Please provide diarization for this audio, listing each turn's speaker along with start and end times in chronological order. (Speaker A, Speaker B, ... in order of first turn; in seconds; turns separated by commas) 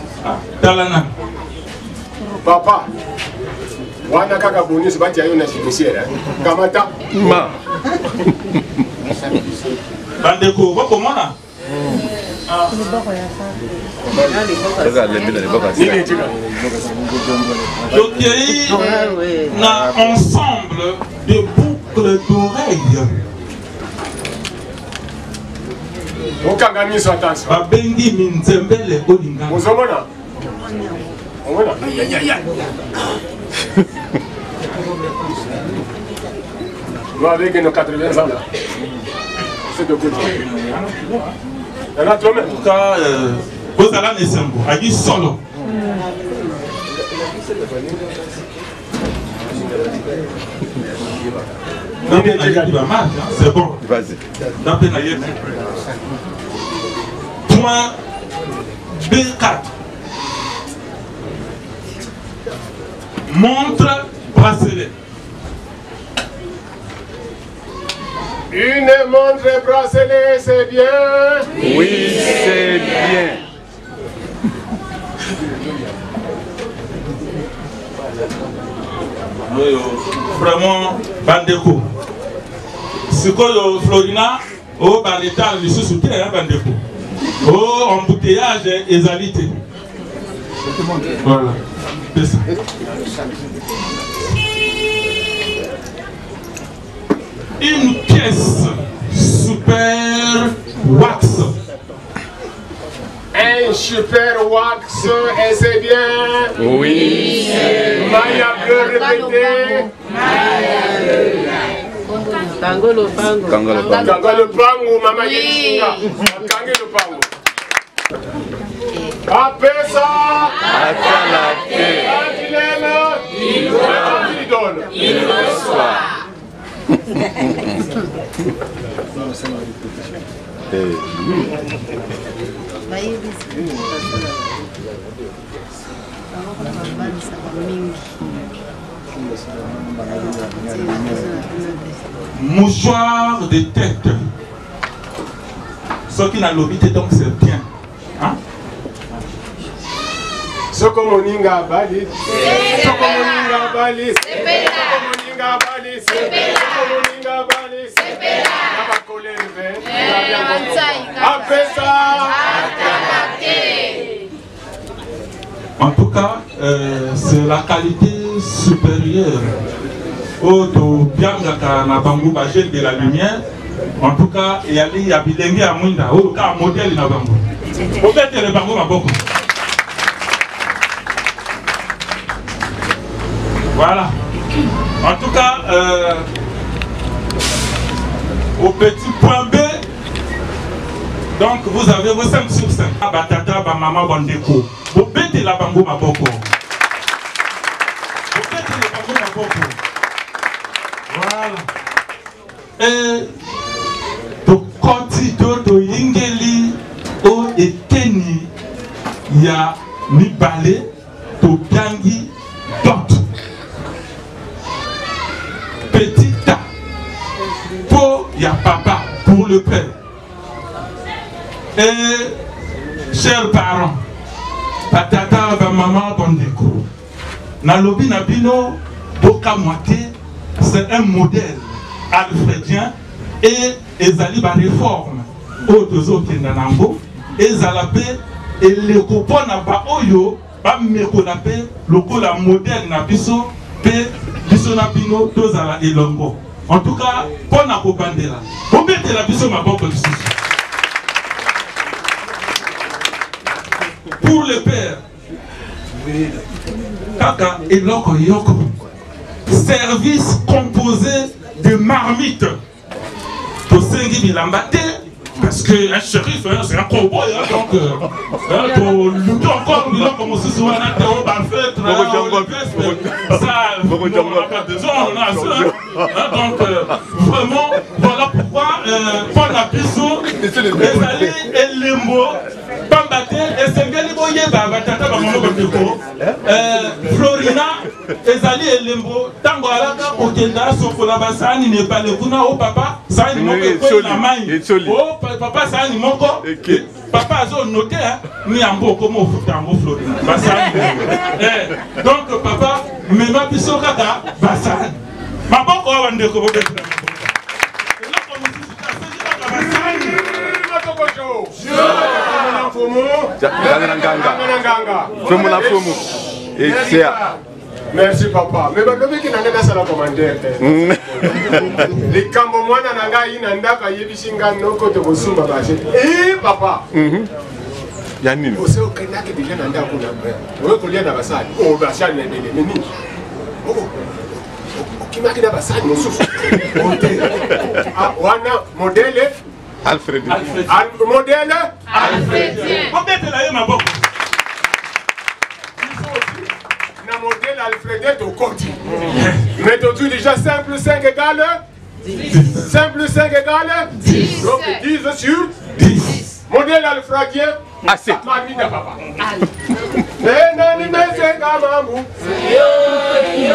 Speaker A: 0.2-1.1, Speaker B: 2.4-2.9, Speaker B: 4.0-6.9, Speaker C: 7.1-7.5, Speaker A: 10.2-11.3, Speaker A: 12.5-12.8, Speaker C: 14.7-16.0, Speaker B: 15.7-16.3, Speaker A: 17.9-23.2, Speaker B: 26.4-27.6, Speaker A: 27.5-29.6, Speaker B: 29.5-30.1, Speaker B: 31.4-32.4, Speaker B: 37.2-38.5, Speaker B: 39.7-40.4, Speaker A: 40.5-41.3, Speaker B: 42.0-42.5, Speaker A: 42.5-45.4, Speaker B: 52.1-52.8, Speaker A: 52.1-53.8, Speaker C: 53.8-54.2, Speaker A: 54.6-55.4, Speaker A: 57.5-57.9, Speaker A: 59.0-59.7, Speaker A: 63.3-64.9, Speaker B: 68.5-71.5, Speaker C: 71.6-73.4, Speaker A: 79.5-81.9, Speaker A: 83.1-86.8, Speaker A: 87.4-89.5, Speaker A: 91.2-92.5, Speaker A: 97.6-101.5, Speaker B: 103.3-106.5, Speaker C: 106.6-107.4, Speaker B: 108.0-109.9, Speaker C: 113.5-114.2, Speaker B: 113.9-117.3, Speaker B: 119.2-120.6, Speaker C: 120.7-122.0, Speaker B: 121.9-125.0, Speaker C: 125.5-126.0, Speaker C: 130.7-131.5, Speaker A: 142.3-144.3, Speaker A: 146.1-147.7, Speaker B: 150.7-163.6, Speaker A: 165.8-169.5, Speaker A: 170.4-173.4, Speaker A: 174.0-177.4, Speaker A: 178.0-179.2, Speaker A: 183.8-184.1, Speaker A: 185.0-186.3, Speaker A: 188.6-189.8, Speaker A: 191.4-196.5, Speaker A: 198.3-199.8, Speaker A: 201.1-201.7, Speaker A: 202.8-203.3, Speaker A: 204.4-208.5, Speaker A: 209.3-210.9, Speaker A: 211.4-213.2, Speaker A: 215.9-216.6, Speaker A: 217.9-219.9, Speaker A: 221.8-222.4, Speaker A: 223.1-224.0, Speaker A: 224.9-226.9, Speaker A: 227.6-250.3, Speaker A: 254.2-255.0, Speaker A: 257.2-258.7, Speaker A: 259.5-262.6, Speaker A: 263.7-307.3, Speaker C: 271.8-276.0, Speaker C: 280.4-281.4, Speaker C: 293.3-294.9, Speaker C: 296.4-296.8, Speaker A: 308.0-310.2, Speaker B: 309.6-317.4, Speaker C: 313.4-314.4, Speaker C: 315.2-317.2, Speaker B: 317.9-326.9, Speaker C: 320.6-321.9, Speaker C: 326.9-327.3, Speaker C: 328.2-328.6, Speaker B: 328.5-332.9, Speaker B: 333.6-333.9, Speaker B: 334.7-337.1, Speaker A: 336.8-337.4, Speaker B: 337.9-339.3, Speaker C: 339.8-340.5, Speaker A: 340.3-340.9, Speaker B: 340.7-342.6, Speaker A: 342.0-344.0, Speaker A: 345.8-346.5, Speaker B: 347.0-348.8, Speaker A: 349.1-349.5, Speaker B: 349.5-351.6, Speaker A: 352.3-352.7, Speaker B: 352.5-355.6, Speaker A: 354.0-354.4, Speaker A: 355.8-356.3, Speaker B: 356.5-359.0, Speaker C: 357.9-358.2, Speaker B: 360.2-362.1